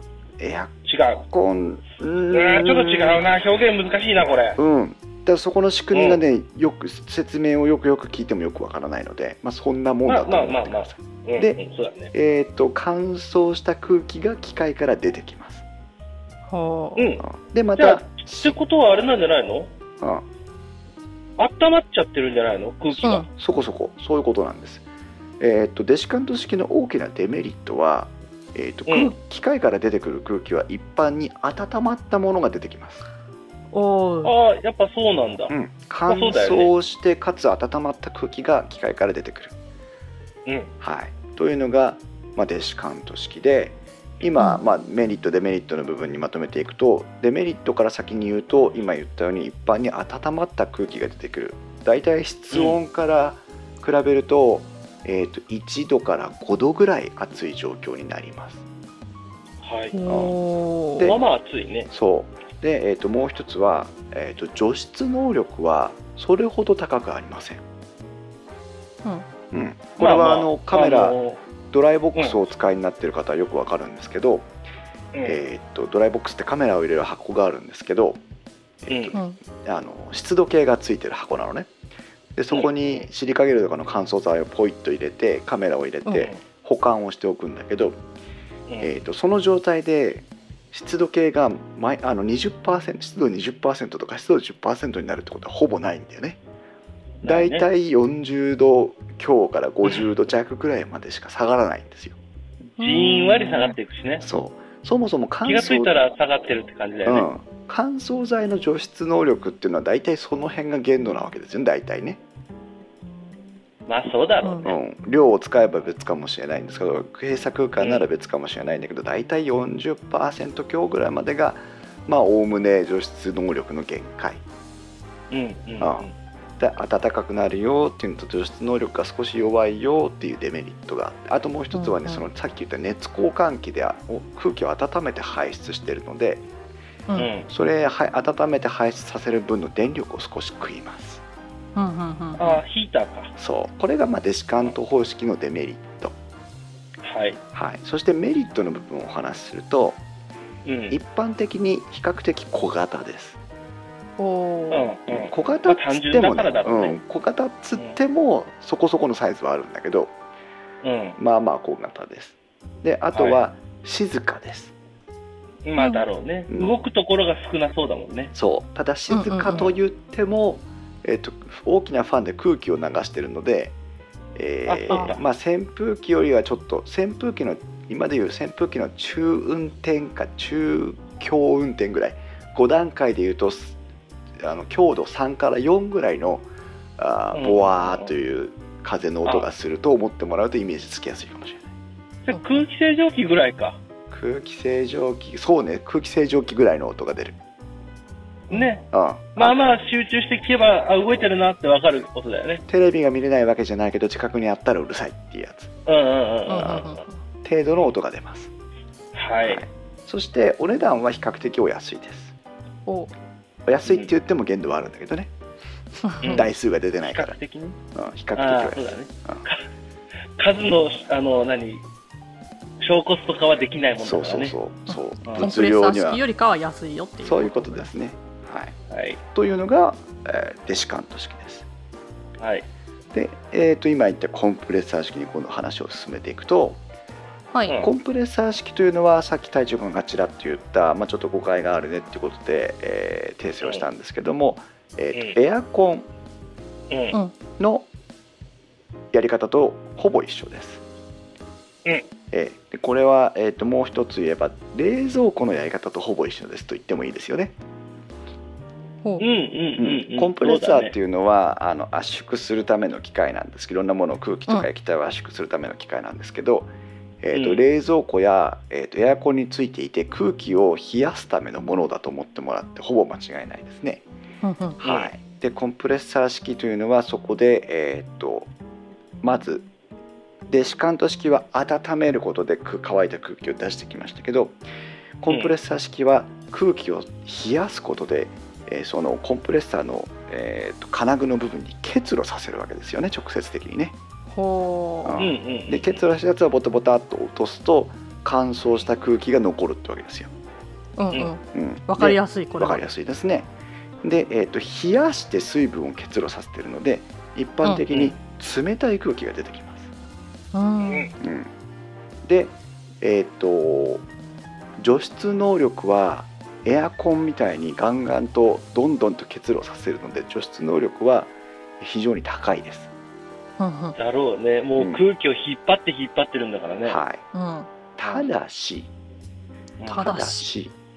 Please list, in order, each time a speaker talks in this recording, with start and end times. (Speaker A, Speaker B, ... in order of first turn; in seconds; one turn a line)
Speaker A: 0.4-0.7
Speaker B: 0.8-1.2
Speaker A: 1.3-3.2
Speaker B: 2.3-4.6
Speaker A: 4.6-11.6
Speaker B: 5.9-6.2
Speaker B: 10.1-12.1
Speaker A: 12.1-15.6
Speaker C: 16.5-17.1
Speaker B: 16.9-19.7
Speaker A: 17.3-18.6
Speaker A: 20.0-20.2
Speaker B: 21.4-23.3
Speaker A: 23.0-24.8
Speaker C: 23.0-23.3
Speaker A: 25.4-33.0
Speaker B: 28.9-29.1
Speaker C: 33.7-34.3
Speaker B: 34.2-35.5
Speaker A: 35.5-39.5
Speaker B: 36.1-36.7
Speaker B: 40.5-40.7
Speaker A: 40.8-58.6
Speaker B: 52.5-52.8
Speaker B: 59.6-60.0
Speaker C: 59.9-61.1
Speaker A: 60.1-60.4
Speaker A: 61.0-61.2
Speaker B: 61.0-61.9
Speaker A: 61.9-67.6
Speaker A: 69.5-71.2
Speaker B: 70.0-71.4
Speaker A: 71.7-74.5
Speaker B: 75.1-75.4
Speaker A: 75.2-78.2
Speaker A: 78.8-81.7
Speaker B: 78.9-79.2
Speaker C: 79.1-79.4
Speaker A: 82.3-88.0
Speaker B: 82.5-83.0
Speaker A: 88.8-96.4
Speaker B: 97.2-97.7
Speaker A: 97.2-102.2
Speaker B: 102.8-104.2
Speaker C: 102.8-103.8
Speaker A: 104.2-106.0
Speaker B: 105.4-107.3
Speaker A: 107.0-112.2
Speaker B: 113.9-114.8
Speaker C: 114.4-114.7
Speaker A: 114.6-124.4
Speaker B: 117.8-118.1
Speaker B: 125.3-126.1
Speaker A: 125.8-126.1
Speaker A: 126.6-136.4
Speaker C: 131.7-132.2
Speaker B: 137.2-137.5
Speaker A: 137.5-141.2
Speaker C: 141.8-142.6
Speaker B: 142.4-143.3
Speaker A: 143.4-146.2
Speaker B: 147.0-147.4
Speaker A: 147.5-150.0
Speaker B: 150.6-151.0
Speaker A: 150.9-153.4
Speaker C: 154.2-154.9
Speaker B: 154.7-157.0
Speaker A: 155.1-160.1
Speaker B: 160.8-161.2
Speaker A: 161.2-164.7
Speaker B: 163.1-163.4
Speaker B: 165.6-168.3
Speaker C: 165.8-166.0
Speaker A: 168.3-173.7
Speaker C: 169.1-169.7
Speaker A: 174.3-183.8
Speaker B: 174.7-175.2
Speaker A: 184.4-186.4
Speaker A: 187.0-191.7
Speaker B: 187.3-188.1
Speaker B: 192.2-193.8
Speaker A: 194.1-197.4
Speaker B: 198.5-202.6
Speaker A: 198.9-199.6
Speaker A: 202.7-205.7
Speaker B: 205.8-206.9
Speaker C: 206.5-207.1
Speaker A: 206.6-206.9
Speaker A: 207.4-208.5
Speaker B: 209.1-209.7
Speaker A: 209.4-212.3
Speaker C: 212.8-213.1
Speaker A: 213.7-215.3
Speaker C: 216.1-216.4
Speaker B: 216.2-217.8
Speaker A: 216.2-217.3
Speaker A: 217.9-219.4
Speaker B: 218.3-219.6
Speaker B: 220.4-221.8
Speaker B: 222.8-224.5
Speaker A: 224.0-226.2
Speaker C: 224.9-227.9
Speaker B: 225.2-225.5
Speaker A: 227.2-228.7
Speaker B: 228.9-229.2
Speaker A: 229.3-231.7
Speaker B: 232.4-232.7
Speaker A: 233.1-236.8
Speaker A: 237.7-246.1
Speaker B: 246.9-247.2
Speaker A: 247.6-247.9
Speaker A: 249.1-250.8
Speaker A: 252.3-257.5
Speaker B: 259.2-260.9
Speaker A: 259.8-274.0
Speaker B: 267.3-267.6
Speaker C: 274.4-274.8
Speaker A: 274.8-278.5
Speaker B: 274.8-275.1
Speaker A: 279.2-279.7
Speaker A: 280.5-284.6
Speaker A: 285.2-294.0
Speaker B: 285.3-285.5
Speaker C: 294.3-295.2
Speaker A: 295.0-300.3
Speaker B: 295.2-295.9
Speaker C: 301.0-302.8
Speaker A: 301.5-303.5
Speaker A: 304.0-309.9
Speaker B: 307.9-308.1
Speaker C: 310.5-311.1
Speaker B: 310.8-311.1
Speaker A: 311.2-311.5
Speaker A: 312.2-314.0
Speaker A: 314.8-322.9
Speaker C: 323.6-323.9
Speaker B: 323.9-327.0
Speaker A: 324.8-325.0
Speaker A: 326.8-327.2
Speaker C: 327.3-327.7
Speaker A: 327.9-328.9
Speaker B: 329.8-330.1
Speaker C: 329.9-330.5
Speaker A: 329.9-330.7